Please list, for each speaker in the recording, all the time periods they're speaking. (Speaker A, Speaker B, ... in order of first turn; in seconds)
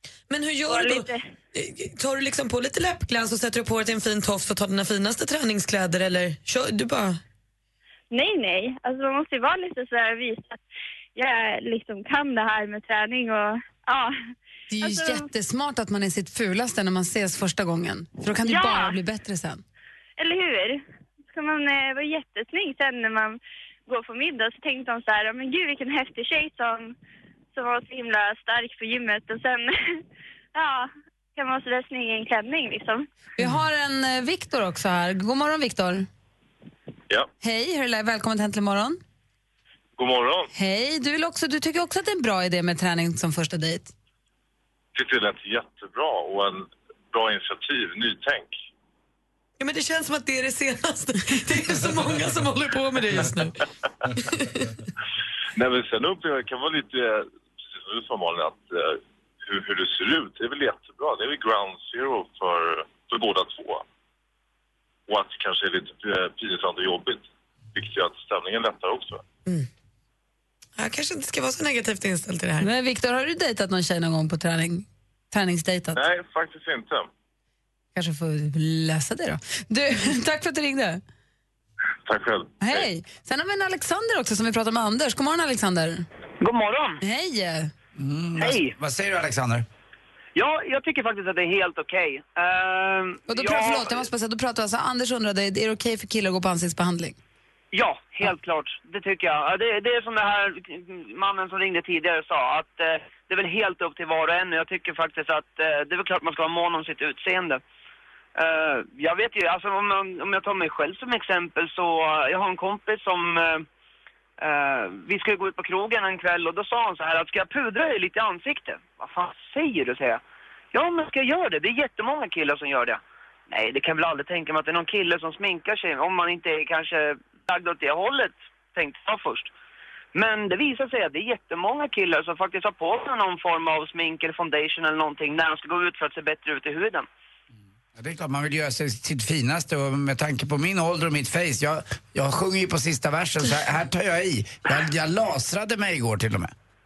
Speaker A: 0.3-7.2, 49.6-53.6, 54.1-54.8, 70.8-72.7
Speaker B: 0.7-1.2, 8.1-10.6, 11.1-14.1, 14.8-15.2, 18.4-18.9, 20.2-26.9, 27.5-30.0, 30.5-33.1
Speaker C: 14.7-19.6, 33.4-36.1, 37.4-39.0, 40.5-43.9, 72.6-76.0, 77.9-81.0, 82.6-86.0, 87.0-87.7, 93.3-97.2
Speaker D: 40.0-40.5, 44.9-48.5, 55.5-63.8, 65.1-69.2, 75.9-77.1, 82.0-82.9
Speaker E: 86.4-87.0, 88.4-88.7, 90.3-94.1, 97.7-107.6, 108.3-113.7, 114.4-120.2, 120.7-129.5, 130.1-137.1
Speaker F: 88.0-89.7, 137.9-146.5